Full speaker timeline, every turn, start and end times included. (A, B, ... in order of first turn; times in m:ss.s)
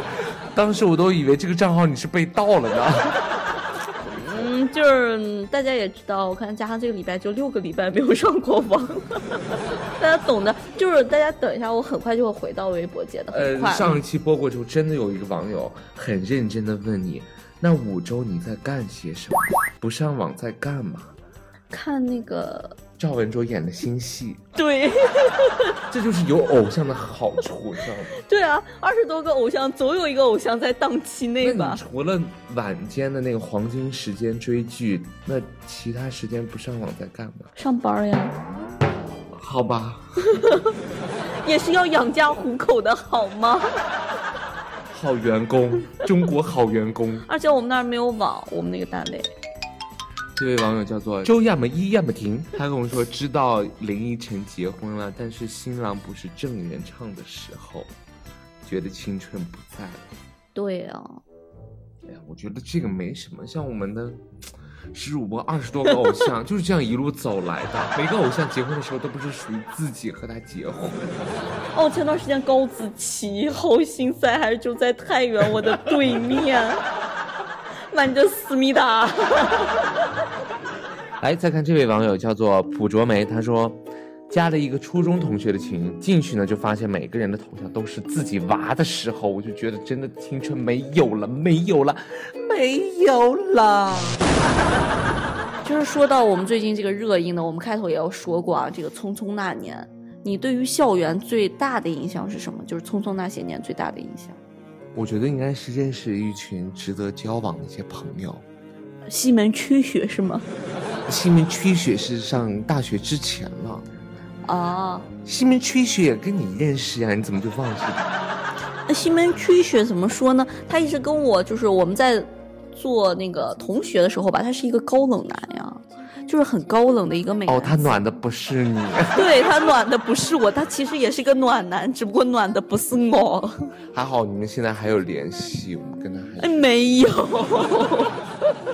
0:00.5-0:03.2 A
0:04.0-0:14.0 B
0:13.3-0:21.1 A
0:21.7-0:22.8 B
0:23.0-0:24.4 A
0:24.6-0:25.8 B
0:25.9-0:28.2 A
0:28.2-0:31.8 B
0:31.4-0:37.5 A
0:37.6-0:38.4 B
0:39.3-0:40.1 A
0:40.3-0:40.7 B
0:41.4-0:43.8 B
0:44.9-0:47.3 A
0:47.3-0:49.3 B
0:50.4-0:57.9 A
0:58.6-1:00.0 A
1:00.6-1:01.2 B
1:02.0-1:04.3 A
1:04.9-1:11.2 A
1:11.7-1:16.8 B
1:17.9-1:20.0 B
1:21.2-1:34.3 A
1:35.6-1:44.4 B
1:45.0-1:48.4 A
1:49.1-1:50.5 B
1:51.1-1:53.9 A
1:54.4-1:55.1 B
1:55.2-1:58.1 A
1:58.9-2:07.9 B
2:07.5-2:09.4 A
2:09.1-2:13.7 B
2:13.9-2:16.6 A
2:16.4-2:18.2 B